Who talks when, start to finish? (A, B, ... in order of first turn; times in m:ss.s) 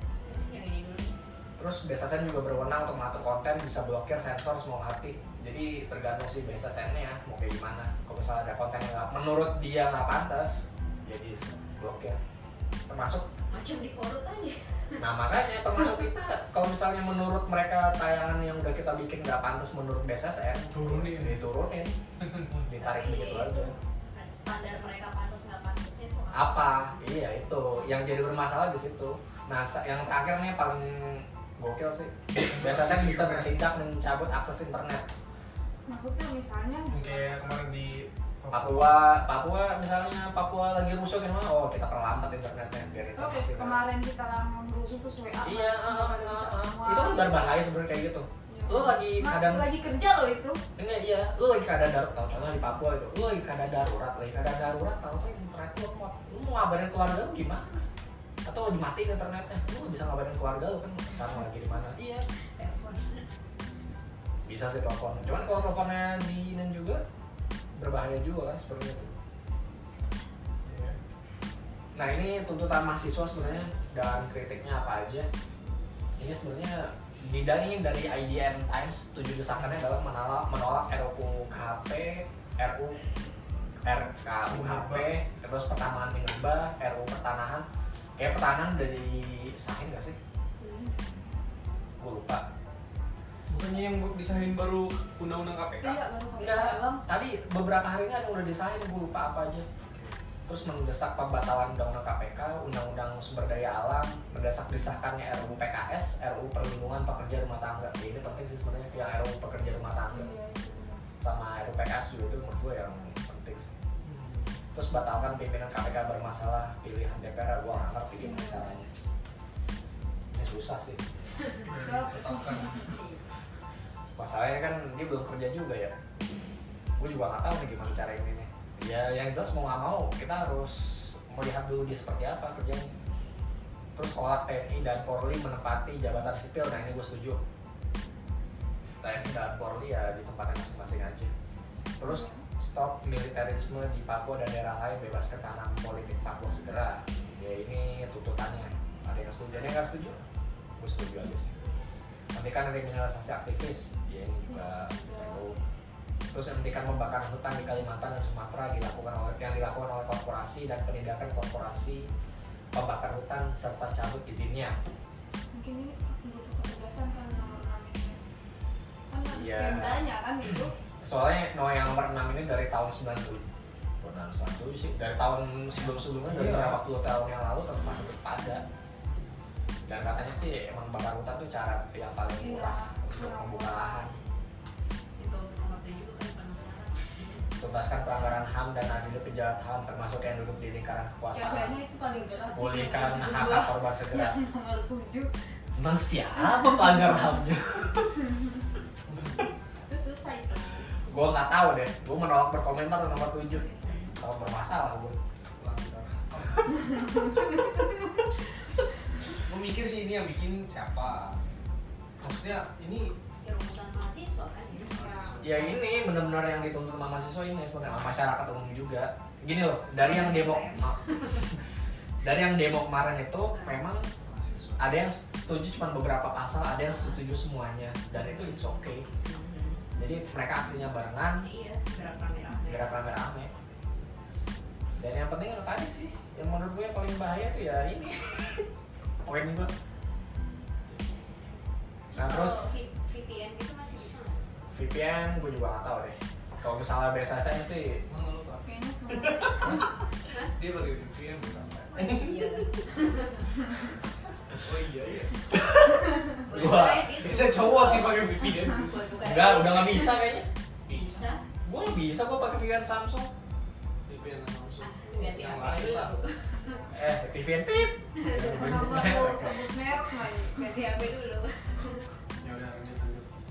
0:00.2-0:01.1 A
0:01.6-0:12.2 B
0:12.9-0:13.3 B
0:13.5-0:15.0 A
0:15.0-0:22.0 B
0:20.7-0:21.4 C
0:22.2-0:22.6 C
0:22.6-0:23.7 B
0:22.8-0:27.0 A
0:26.3-0:35.0 B
0:32.4-0:33.5 C
0:35.8-0:37.4 D
0:36.9-0:39.0 C
0:38.5-0:43.8 B
0:43.2-0:47.4 D
0:45.4-0:49.7 B
0:48.5-0:50.6 D
0:50.8-0:57.8 B
0:58.4-1:02.2 B
1:02.4-1:03.3 A
1:04.4-1:07.0 B
1:07.8-1:09.1 B
1:10.6-1:11.0 C
1:11.9-1:15.3 B
1:16.2-1:23.0 B
1:23.8-1:27.6 B
1:24.5-1:25.1 C
1:28.2-1:30.2 B
1:30.6-1:31.0 D
1:32.0-1:32.4 B
1:33.5-1:36.0 C
1:35.8-1:37.0 D
1:36.4-1:39.6 B
1:39.8-1:40.2 C
1:40.4-1:50.3 B
1:50.1-1:51.0 D
1:51.2-1:53.7 B
1:54.0-1:54.6 C
1:54.7-1:58.9 B
1:58.2-1:58.6 D
2:00.3-2:01.0 B
2:01.4-2:01.7 A
2:01.6-2:03.0 C
2:01.8-2:02.9 D
2:02.8-2:03.2 A
2:04.2-2:05.9 B
2:07.0-2:12.9 B
2:13.9-2:17.4 B
2:19.0-2:21.3 B
2:22.0-2:30.2 B
2:22.0-2:22.4 D
2:29.5-2:30.2 C
2:30.8-2:31.6 B
2:32.3-2:35.6 B
2:34.5-2:35.4 D
2:36.3-2:42.1 B
2:42.7-2:44.8 B
2:45.5-2:48.2 D
2:49.1-2:50.7 D
2:49.3-2:53.4 B
2:54.0-2:58.6 B
2:55.7-2:56.8 C
2:59.9-3:04.1 B
3:02.4-3:04.1 D
3:05.2-3:07.5 A
3:07.6-3:14.4 B
3:11.3-3:15.3 D
3:15.8-3:18.1 B
3:16.4-3:17.2 D
3:19.1-3:19.5 C
3:19.8-3:20.9 D
3:21.1-3:23.7 B
3:23.5-3:23.9 D
3:23.8-3:24.2 A
3:24.2-3:25.2 B
3:25.6-3:27.0 C
3:29.4-3:31.4 C
3:32.2-3:33.1 C
3:33.4-3:35.0 A
3:34.7-3:35.8 C
3:34.9-3:35.4 D
3:35.4-3:41.6 B
3:39.9-3:41.5 A
3:42.2-3:44.1 B
3:43.5-3:43.8 A
3:44.2-3:44.9 C
3:44.8-3:49.0 B
3:46.9-3:47.2 A
3:49.1-3:49.8 A
3:49.9-3:51.4 B
3:51.4-3:53.0 A
3:52.7-3:53.5 B
3:55.0-3:58.6 B
3:59.2-3:59.7 B
4:02.1-4:04.4 A
4:02.1-4:02.8 B
4:04.7-4:08.0 B
4:08.1-4:09.9 C
4:08.6-4:09.8 D
4:10.5-4:12.8 C
4:11.9-4:13.6 A
4:14.6-4:15.5 C
4:15.5-4:17.2 B
4:16.4-4:20.2 A
4:16.5-4:19.0 C
4:19.2-4:20.5 B
4:20.9-4:21.3 C
4:20.9-4:21.4 A
4:21.6-4:23.3 B
4:24.1-4:26.1 C
4:24.8-4:26.8 A
4:26.6-4:26.9 D
4:26.9-4:29.6 B
4:28.1-4:28.8 A
4:28.4-4:30.9 D
4:30.4-4:32.1 A
4:32.4-4:33.3 C